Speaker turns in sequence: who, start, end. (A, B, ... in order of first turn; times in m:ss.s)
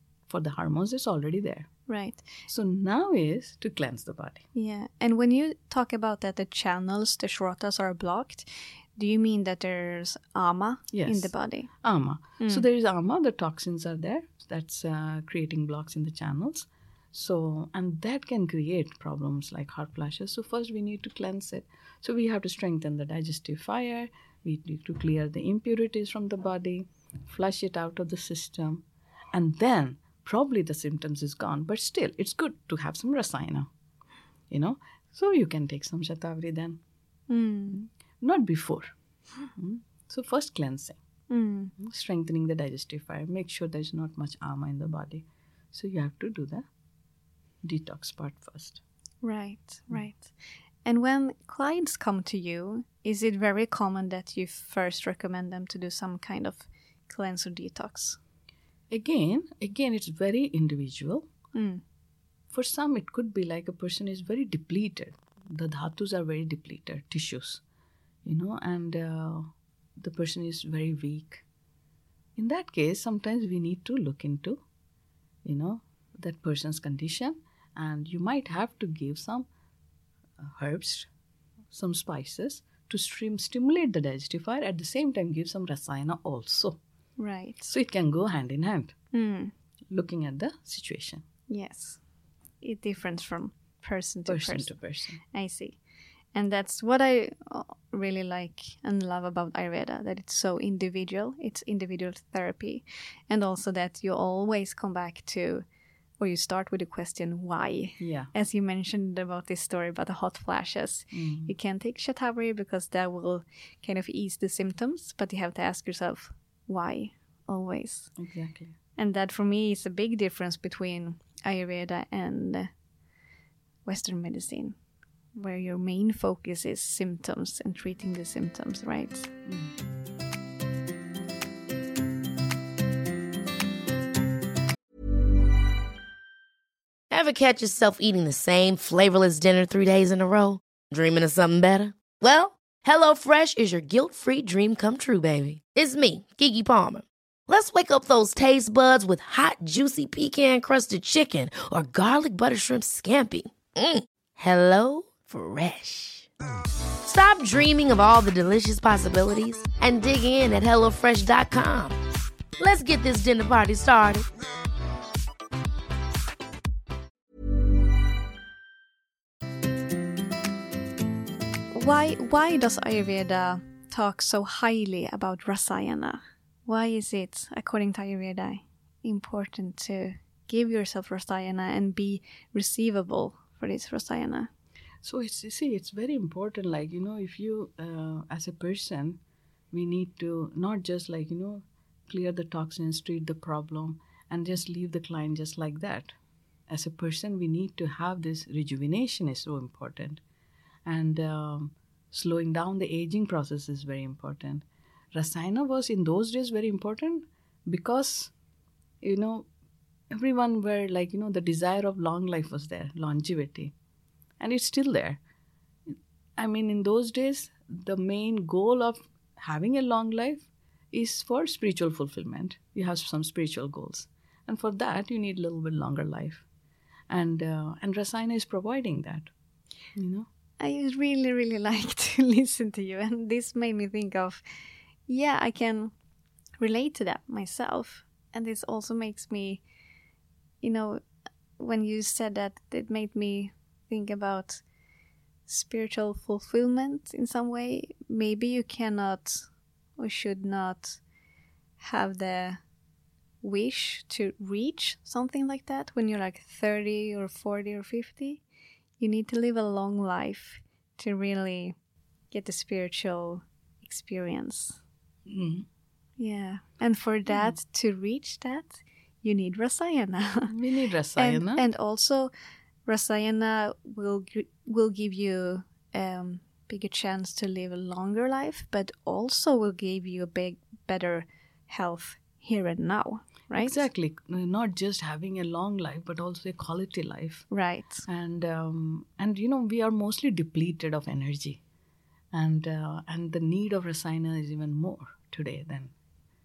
0:00.3-0:01.7 A
0:01.9-0:02.3 B
0:02.5-0:04.4 A
0:04.6-0:11.7 B
0:10.9-0:33.7 A
0:12.4-0:12.6 B
0:34.5-0:36.8 A
0:37.3-0:37.8 B
0:37.7-0:38.9 A
0:39.6-0:41.0 A
0:41.3-0:41.7 B
0:41.8-0:46.6 A
0:47.6-0:48.8 A
0:49.2-0:58.2 B
0:58.9-1:01.3 A
1:01.5-1:01.8 B
1:02.5-1:07.6 A
1:08.2-1:11.4 A
1:12.4-1:14.6 A
1:15.4-1:19.5 A
1:20.4-1:21.1 A
1:21.7-1:26.8 A
1:27.2-1:27.6 B
1:27.7-1:28.9 A
1:29.1-1:29.5 B
1:29.9-1:31.2 A
1:31.5-1:32.0 B
1:32.6-1:34.7 B
1:34.3-1:35.2 A
1:35.3-1:35.8 B
1:36.3-1:45.6 B
1:46.2-1:58.1 B
1:48.0-1:48.3 A
1:51.1-1:51.5 A
1:58.2-1:58.8 A
1:59.0-2:02.7 B
2:03.8-2:04.8 B
2:05.3-2:09.3 B
2:17.1-2:36.3 C
2:37.0-2:42.0 C
2:42.6-2:44.3 C
2:51.7-3:04.5 B
3:05.0-3:09.2 A
3:09.7-3:16.2 A
3:16.7-3:20.2 A
3:20.9-3:28.3 A
3:29.0-3:29.5 A
3:30.1-3:33.7 A
3:34.4-3:35.2 A
3:35.9-3:46.4 A
3:47.1-3:49.3 A
3:50.0-3:50.3 A
3:50.6-3:54.4 B
3:55.1-3:55.9 B
3:56.6-3:59.6 B
4:00.6-4:01.0 B
4:01.6-4:04.6 B
4:05.5-4:11.0 B
4:11.8-4:12.6 B
4:13.4-4:18.4 B
4:19.0-4:21.8 B
4:22.3-4:24.8 B
4:25.3-4:25.7 A
4:26.2-4:30.5 B
4:30.5-4:31.6 A
4:31.2-4:32.3 B
4:32.9-4:43.9 B
4:43.6-4:47.5 A
4:47.5-4:48.0 B
4:48.1-4:51.6 A
4:52.3-4:55.9 A